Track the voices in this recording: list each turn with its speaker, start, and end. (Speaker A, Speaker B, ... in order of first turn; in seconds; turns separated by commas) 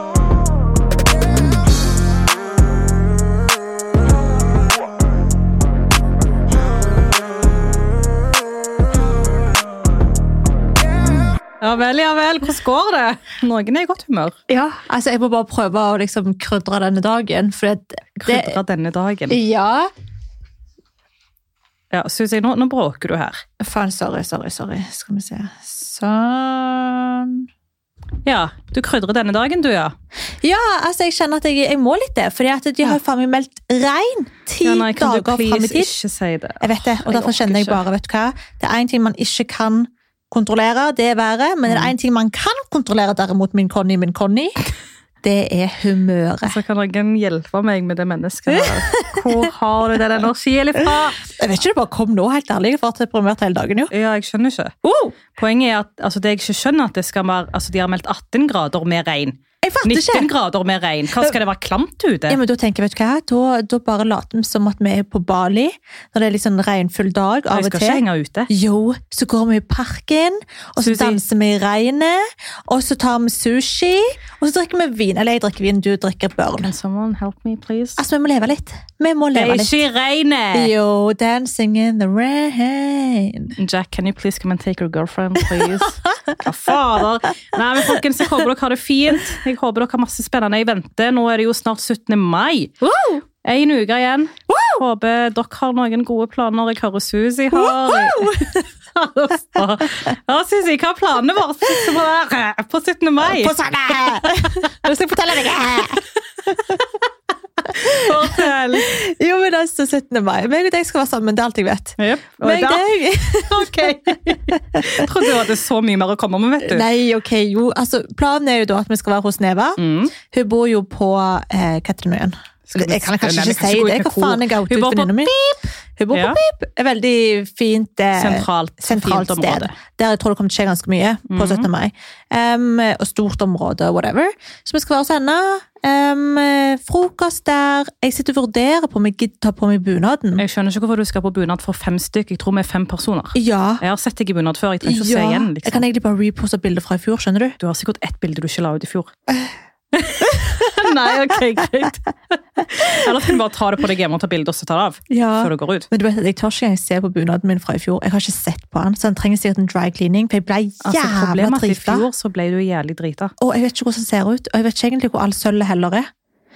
Speaker A: 11.6-14.3, Speaker B: 14.5-18.6, Speaker A: 18.2-19.4, Speaker B: 19.3-19.9, Speaker A: 21.9-23.4, Speaker B: 23.6-27.4, Speaker A: 28.2-29.9, Speaker B: 30.4-35.9, Speaker A: 34.6-37.8, Speaker B: 36.6-44.6, Speaker A: 41.6-41.9, Speaker B: 45.2-46.6, Speaker A: 46.4-51.2, Speaker B: 48.6-49.2, Speaker B: 51.2-53.9, Speaker A: 53.9-54.8, Speaker B: 54.8-55.1, Speaker A: 55.3-62.4, Speaker B: 59.6-60.3, Speaker B: 62.3-76.7, Speaker A: 67.5-68.5, Speaker A: 70.8-71.2, Speaker A: 76.6-78.0, Speaker B: 78.0-79.8, Speaker A: 79.3-80.7, Speaker B: 80.5-83.5, Speaker A: 83.6-92.7, Speaker B: 92.8-93.2, Speaker A: 93.4-104.7, Speaker B: 94.5-94.8, Speaker B: 97.5-98.7, Speaker B: 103.2-106.8, Speaker A: 107.7-108.9, Speaker B: 107.8-115.1, Speaker A: 112.0-116.8, Speaker B: 116.6-140.4, Speaker A: 119.8-120.1, Speaker A: 122.7-125.1, Speaker A: 126.1-126.4, Speaker A: 128.2-129.7, Speaker A: 131.3-131.7, Speaker A: 140.4-145.8, Speaker B: 143.3-143.8, Speaker B: 144.8-147.6, Speaker A: 147.6-149.1, Speaker A: 149.9-155.9, Speaker B: 155.1-162.1, Speaker A: 160.8-163.3, Speaker B: 163.4-166.1